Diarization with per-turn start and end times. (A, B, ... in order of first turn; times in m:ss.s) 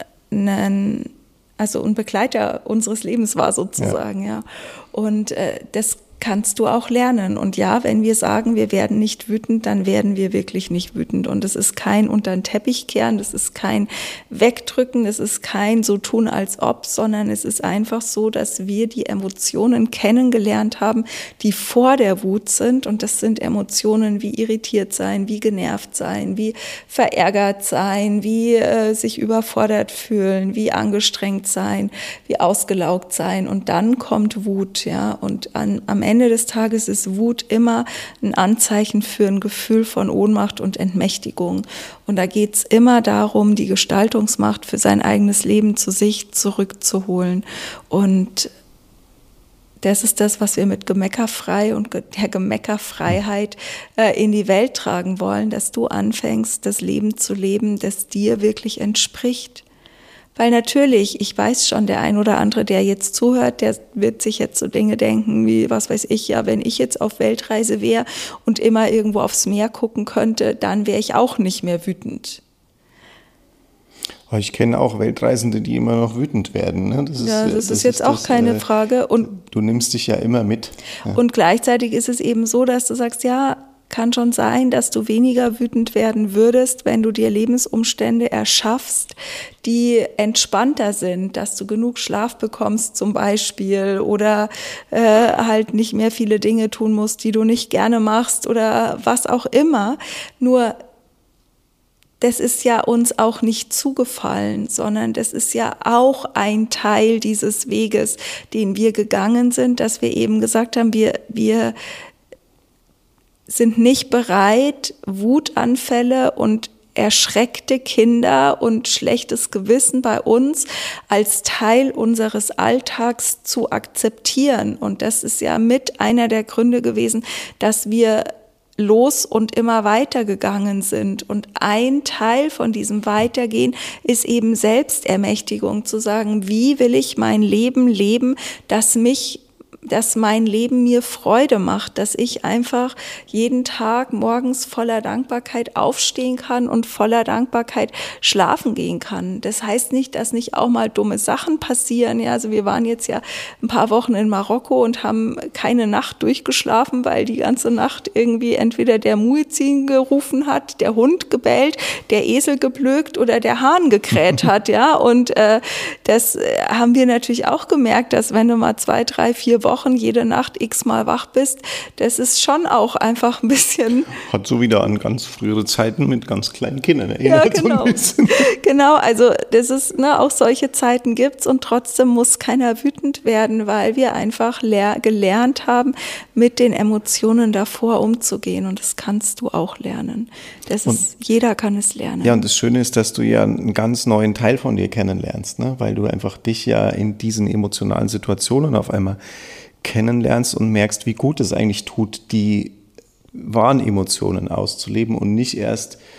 0:00.3-0:48.5 A
0:49.8-0:59.6 A
1:00.3-1:12.4 A
1:14.3-1:18.6 B
1:17.2-1:19.3 A
1:19.2-1:21.2 B
1:21.1-1:40.8 A
1:42.2-1:51.7 A
1:53.5-2:54.2 A
2:54.2-2:58.4 B
2:57.2-3:12.4 A
3:12.2-3:19.2 B
3:19.8-3:22.8 B
3:23.3-3:26.0 B